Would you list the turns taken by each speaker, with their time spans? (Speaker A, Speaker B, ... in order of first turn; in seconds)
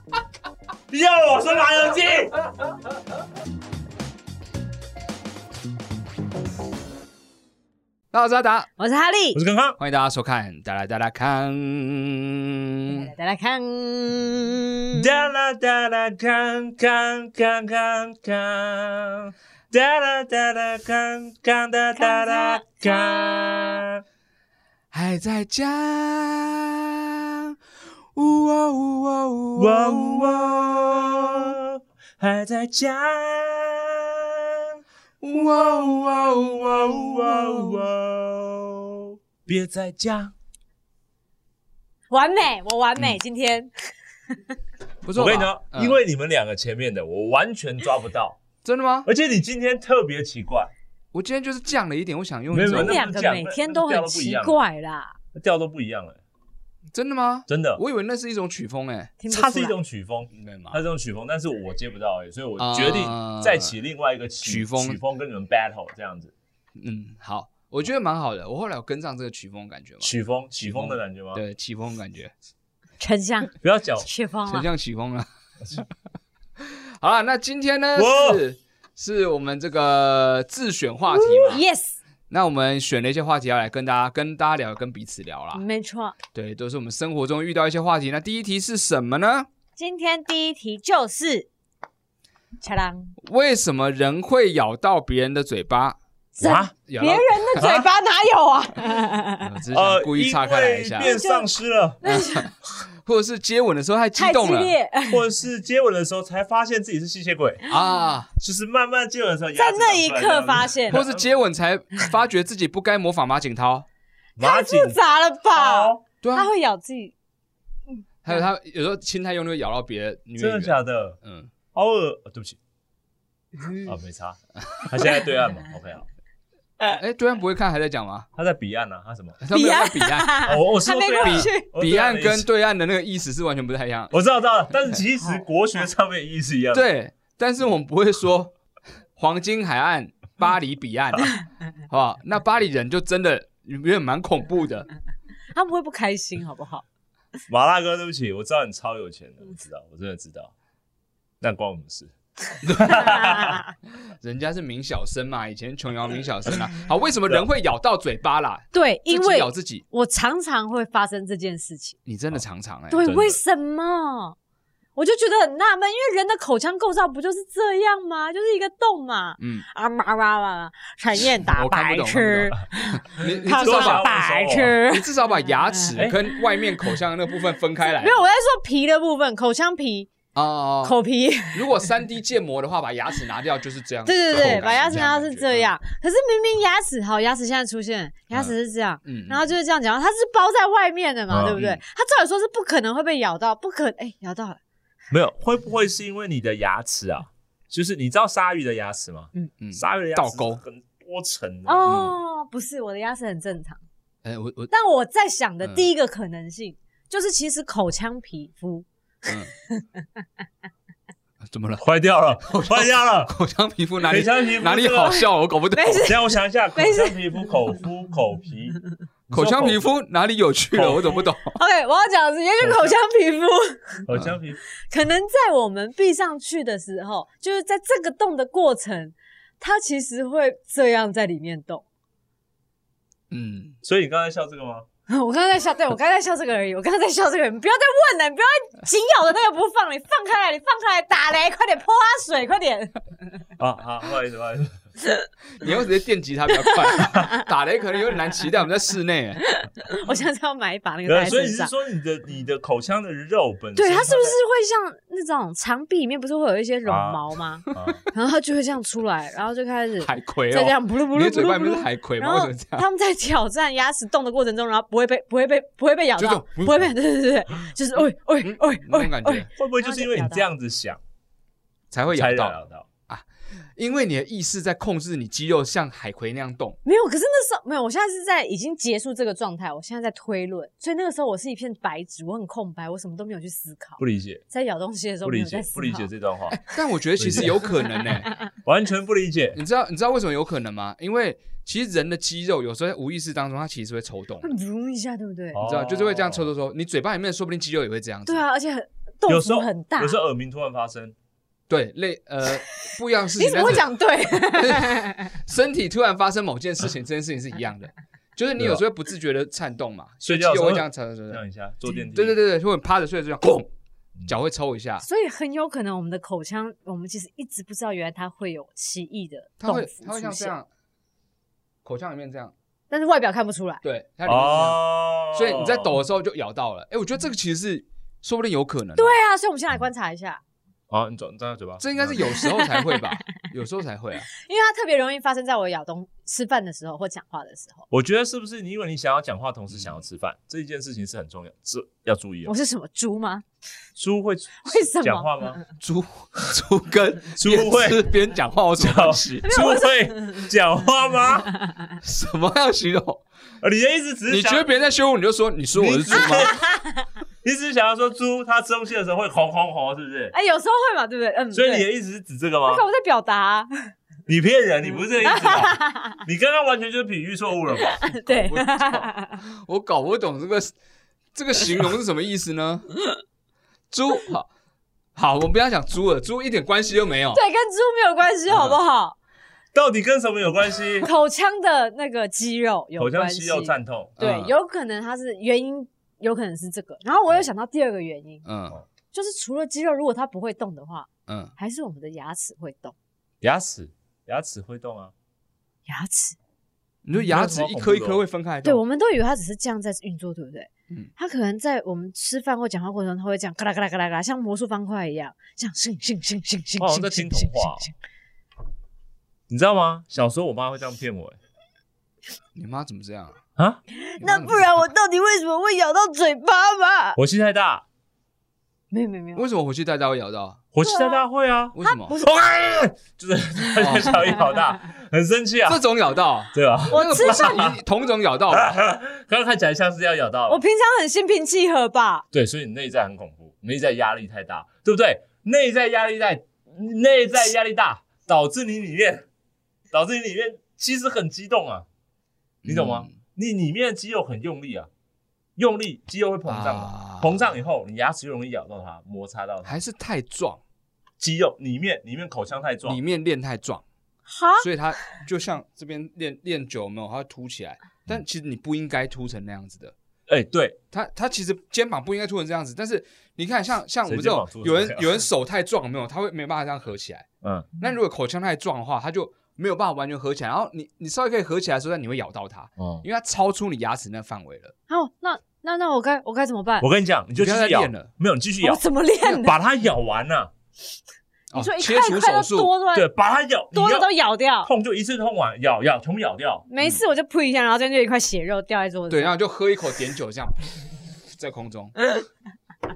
Speaker A: 0.9-2.4, 9.3-9.8, 14.9-24.0, 29.6-34.8, 35.3-40.3, 45.2-48.4, 49.1-50.7, 52.5-54.6, 55.4-56.2, 57.5-57.8, 59.3-66.3, 70.0-71.4, 73.6-74.1, 78.0-78.4, 96.4-96.7, 97.6-97.9, 99.7-102.0, 105.1-107.6, 108.4-111.3, 114.4-115.0, 115.5-116.0, 120.4-121.2, 121.7-122.6, 123.8-126.1, 128.3-129.4, 130.4-132.5, 134.1-136.9, 147.5-150.5, 151.4-152.1, 152.7-153.6, 163.1-163.4, 173.2-174.8, 184.3-184.6, 191.3-191.6, 195.1-201.9, 211.8-213.3, 214.0-215.3, 216.0-219.9, 220.7-221.3, 224.1-224.6, 233.8-234.9, 243.6-244.7, 251.1-254.4, 256.9-258.0, 269.6-271.0, 272.1-272.9, 284.0-284.4, 285.2-286.6, 287.2-287.7, 288.6-289.6, 295.5-296.5, 299.3-301.1, 308.6-308.8, 310.2-312.4, 324.3-325.9, 330.9-332.4, 337.9-342.5, 344.0-345.6, 347.4-348.1, 348.8-351.5, 353.6-354.7, 355.8-356.6, 357.4-360.3, 361.5-362.8, 364.3-368.2, 379.7-381.1, 383.0-384.2, 393.4-395.1, 397.2-398.2, 406.8-407.9, 409.5-411.4, 417.2-417.9, 420.7-425.8, 426.5-427.8, 428.5-430.6, 432.3-439.3, 439.9-441.9, 442.7-444.9, 445.6-449.8, 451.2-453.0, 460.3-460.8, 464.1-465.2, 467.4-467.7, 472.8-473.0, 476.8-478.8, 479.4-480.5, 482.9-484.1, 484.6-486.7
Speaker B: 8.1-8.7, 9.8-13.1, 24.9-27.6, 28.1-30.4, 35.2-37.8, 45.0-46.0, 48.6-49.1, 51.1-53.0, 56.9-59.1, 60.3-60.8, 62.6-63.7, 64.4-65.0, 66.8-72.3, 74.5-75.9, 76.7-81.6, 82.3-85.6, 86.3-89.5, 93.2-96.0, 96.8-97.7, 99.4-101.1, 102.0-102.5, 103.0-104.8, 107.7-108.3, 110.9-113.9, 116.2-116.5, 118.2-121.5, 126.9-128.3, 129.4-130.5, 131.2-134.1, 136.7-138.5, 139.2-144.9, 152.6-153.4, 154.2-159.8, 162.1-163.1, 169.4-169.7, 171.5-174.1, 174.9-178.2, 180.3-185.7, 189.1-189.5, 191.6-191.8, 199.6-200.6, 201.9-202.2, 204.2-204.7, 211.4-211.9, 212.4-216.1, 219.3-221.6, 233.3-233.8, 245.6-249.4, 260.0-262.9, 266.2-266.9, 268.4-269.5, 271.9-273.2, 273.8-276.8, 286.5-288.3, 289.6-294.6, 295.6-298.4, 301.7-311.4, 312.1-313.7, 314.3-315.1, 319.6-320.7, 321.8-322.5, 323.8-324.8, 325.3-329.2, 331.8-334.3, 345.8-349.4, 352.0-353.2, 354.3-356.5, 368.4-370.7, 371.3-373.0, 373.9-374.5, 375.1-377.4, 384.2-384.5, 388.5-388.8, 391.3-391.5, 397.1-398.8, 412.6-413.4, 414.2-414.9, 419.4-420.6, 421.8-422.1, 423.8-424.3, 425.7-428.7, 442.6-443.1, 446.5-447.4, 449.7-450.6, 452.9-453.8, 454.6-459.9, 460.9-467.3, 467.8-474.7, 477.4-478.1, 481.5-482.7, 489.1-491.9
Speaker C: 8.8-9.4, 12.9-15.1, 22.0-23.7, 42.1-43.7, 52.7-55.2, 59.2-59.8, 73.0-73.5, 74.0-74.7, 81.1-82.0, 85.5-86.2, 89.8-91.5, 92.6-93.2, 96.3-99.5, 101.0-102.5, 104.2-105.2, 109.6-111.0, 114.4-117.1, 123.6-123.9, 129.5-131.7, 145.5-146.8, 152.9-153.7, 158.7-162.0, 162.9-164.4, 165.0-175.1, 175.7-176.6, 177.8-180.1, 180.8-181.9, 184.1-194.6, 201.7-203.8, 204.7-209.9, 215.8-216.2, 216.7-217.2, 221.6-224.1, 224.9-231.8, 235.1-243.0, 246.9-247.3, 249.4-251.7, 253.8-270.5, 276.9-286.1, 294.4-295.6, 298.3-300.1, 303.4-305.3, 315.0-320.5, 322.9-323.8, 329.0-330.4, 332.4-333.1, 334.3-337.9, 342.4-343.4, 344.6-345.6, 349.4-350.5, 351.6-351.9, 356.2-357.1, 360.3-361.9, 362.7-363.9, 365.2-366.2, 367.9-369.4, 377.3-379.2, 381.0-388.4, 389.1-392.9, 395.9-396.4, 398.6-407.9, 413.9-417.2, 418.9-419.5, 420.8-421.2, 421.8-422.3, 426.9-427.8, 430.5-432.3, 454.3-454.7, 474.9-476.9, 478.6-479.6, 481.5-483.1, 483.7-484.7, 486.7-489.3